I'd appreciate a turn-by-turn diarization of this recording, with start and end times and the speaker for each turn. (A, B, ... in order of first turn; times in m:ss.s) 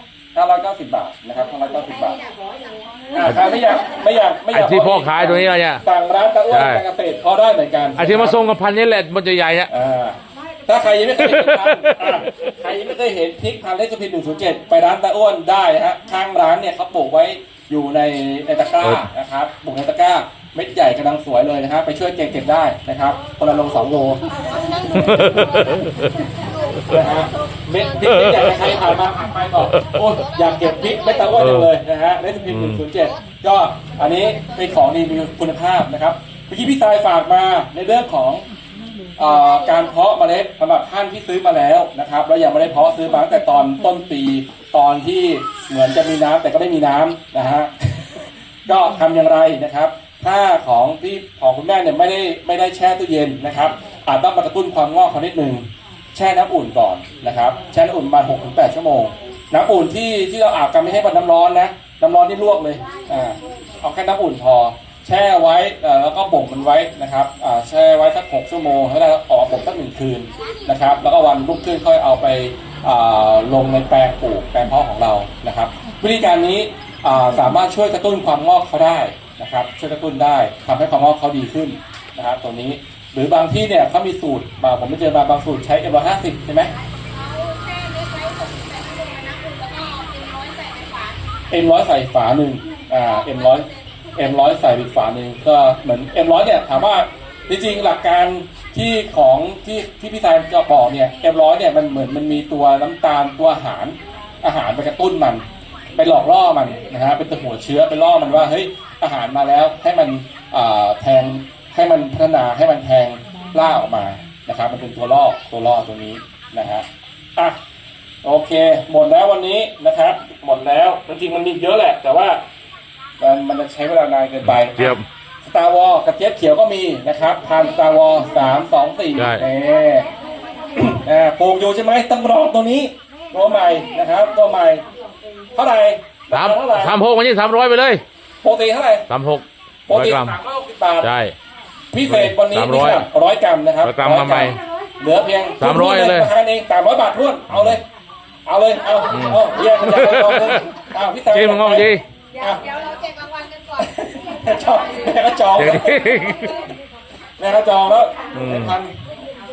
0:00.3-0:02.2 A
0:01.6-0:03.7 B
0:03.1-0:08.4 A
0:04.5-0:05.8 C
0:06.5-0:06.8 C
0:08.0-0:09.7 C
0:09.7-0:24.3 A
0:11.2-0:12.5 C
0:23.6-0:29.1 B
0:24.9-0:26.1 C
0:26.9-0:38.4 A
0:28.0-0:28.7 C
0:30.0-0:31.5 B
0:31.3-0:31.7 C
0:32.5-0:32.8 C
0:33.9-0:34.9 B
0:39.2-1:26.7 A
0:39.2-0:40.0 B
1:02.8-1:03.5 B
1:10.4-1:10.7 B
1:27.0-1:31.2 B
1:31.5-1:45.4 A
1:33.0-1:34.1 B
1:45.9-1:56.8 A
1:58.2-2:02.4 A
2:03.2-2:10.1 A
2:04.4-2:05.0 C
2:09.1-2:09.4 C
2:10.7-2:14.8 A
2:15.5-2:17.0 A
2:16.3-2:18.0 C
2:18.4-2:19.1 A
2:19.1-2:20.4 C
2:19.9-2:21.1 A
2:21.0-2:21.3 C
2:21.9-2:27.8 A
2:22.0-2:23.1 C
2:23.8-2:24.6 C
2:25.6-2:26.3 C
2:27.5-2:27.8 C
2:28.4-2:32.6 A
2:29.1-2:30.6 C
2:31.3-2:32.0 C
2:32.3-2:35.2 B
2:33.8-2:36.0 A
2:35.5-2:36.6 C
2:37.4-2:38.9 A
2:38.3-2:38.8 C